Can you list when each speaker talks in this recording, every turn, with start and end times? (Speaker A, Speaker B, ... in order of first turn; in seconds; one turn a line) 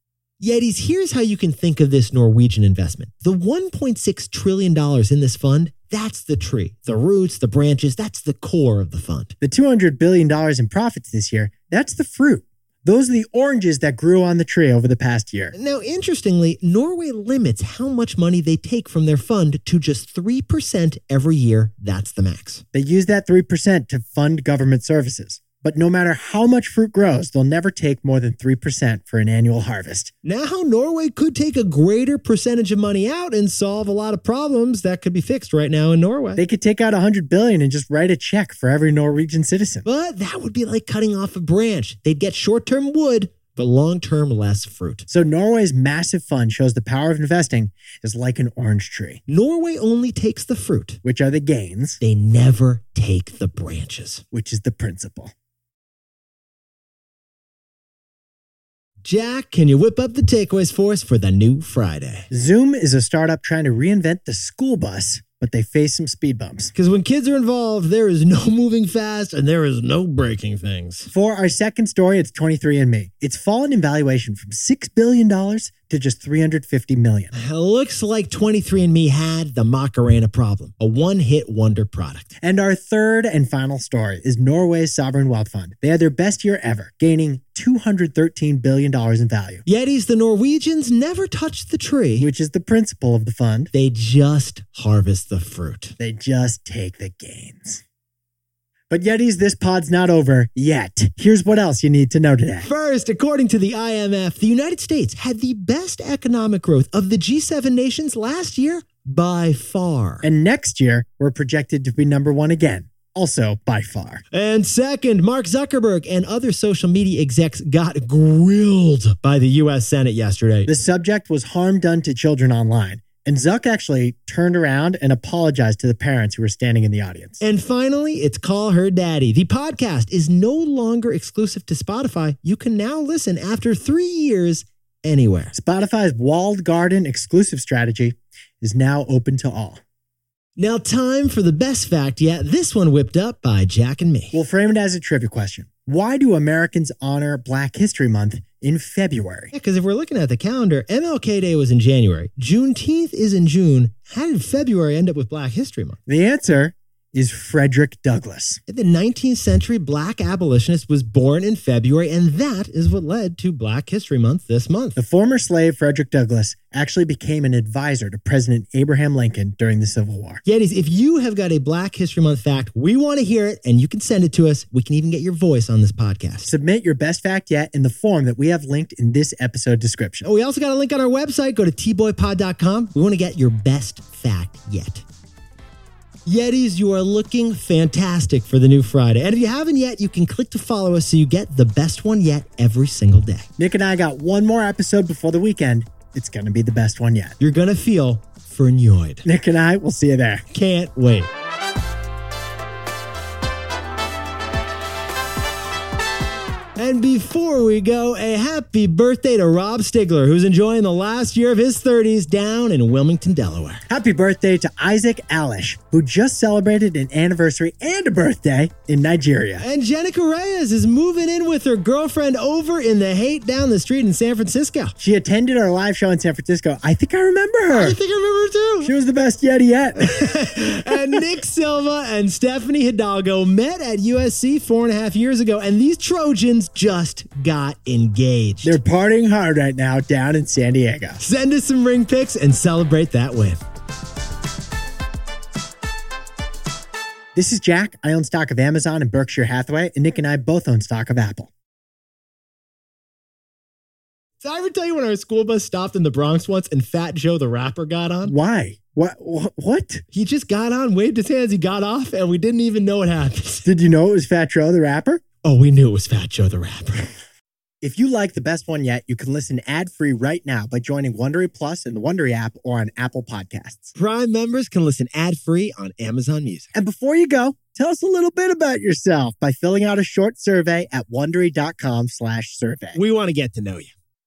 Speaker A: 0.4-9.3
Speaker B: 9.4-15.5
Speaker A: 15.5-22.6
Speaker B: 22.7-30.1
Speaker A: 30.2-36.4
Speaker B: 36.4-39.8
Speaker A: 39.8-45.1
Speaker B: 45.1-49.2
Speaker A: 49.3-51.0
Speaker B: 51.0-52.0
Speaker A: 52.0-54.2
Speaker B: 54.3-55.3
Speaker A: 59.0-62.3
Speaker B: 62.3-66.7
Speaker A: 66.7-71.1
Speaker B: 71.1-77.3
Speaker A: 77.3-82.3
Speaker B: 82.4-89.6
Speaker A: 89.7-92.3
Speaker B: 92.2-93.7
Speaker A: 93.7-96.0
Speaker B: 96.0-97.8
Speaker B: 98.9-102.7
Speaker A: 102.6-110.2
Speaker B: 110.2-114.2
Speaker A: 114.3-120.7
Speaker B: 120.7-127.4
Speaker A: 127.4-135.5
Speaker B: 135.5-139.8
Speaker A: 140.6-144.3
Speaker B: 144.3-149.5
Speaker A: 149.5-156.0
Speaker B: 156.1-158.6
Speaker A: 158.7-165.0
Speaker B: 164.9-170.4
Speaker A: 170.4-176.5
Speaker B: 176.4-180.2
Speaker A: 180.2-185.0
Speaker A: 186.2-193.5
Speaker B: 193.6-197.4
Speaker A: 197.4-199.2
Speaker B: 199.2-200.4
Speaker A: 200.5-201.3
Speaker A: 206.8-213.8
Speaker B: 213.9-219.6
Speaker A: 219.6-224.9
Speaker B: 225.0-228.0
Speaker A: 227.7-228.9
Speaker B: 228.8-230.3
Speaker A: 230.0-238.8
Speaker B: 238.6-241.2
Speaker A: 241.2-243.6
Speaker B: 247.3-251.5
Speaker A: 254.4-258.3
Speaker B: 258.2-260.0
Speaker A: 260.1-263.6
Speaker B: 263.6-265.2
Speaker A: 265.4-267.1
Speaker B: 267.8-273.9
Speaker A: 273.9-276.7
Speaker B: 276.7-283.0
Speaker A: 282.9-283.9